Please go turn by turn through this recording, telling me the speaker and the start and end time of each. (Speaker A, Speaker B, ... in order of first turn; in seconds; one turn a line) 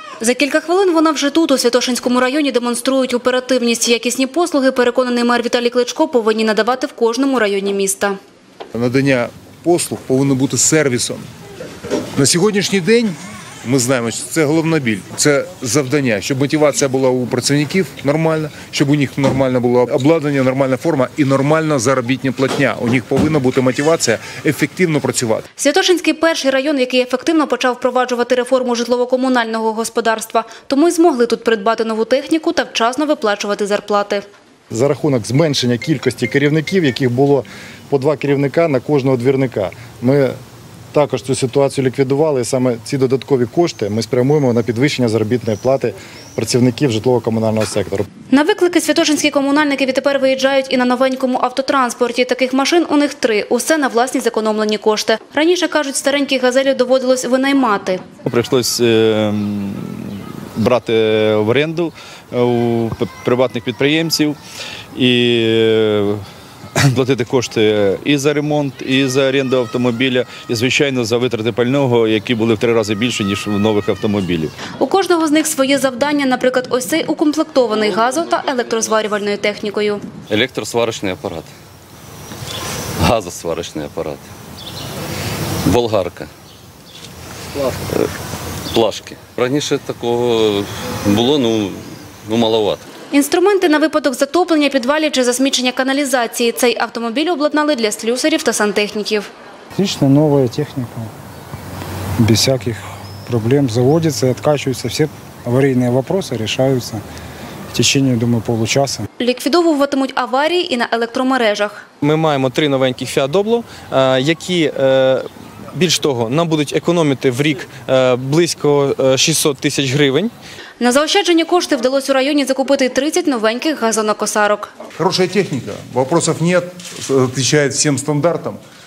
Speaker A: 0.2-8.2
Speaker B: 8.7-11.3
Speaker B: 12.2-25.4
Speaker A: 25.6-34.2
Speaker C: 34.7-40.4
Speaker C: 40.9-48.1
Speaker A: 48.3-58.0
Speaker D: 58.2-64.4
Speaker D: 64.9-66.2
Speaker D: 66.8-74.5
Speaker A: 74.8-80.0
Speaker E: 80.3-81.5
Speaker E: 83.0-84.2
Speaker E: 85.7-86.3
Speaker E: 88.7-92.8
Speaker A: 93.1-99.3
Speaker F: 99.8-101.1
Speaker F: 102.2-107.0
Speaker F: 107.7-109.1
Speaker A: 109.2-111.8
Speaker G: 112.0-120.3
Speaker A: 120.8-124.7
Speaker B: 125.0-128.6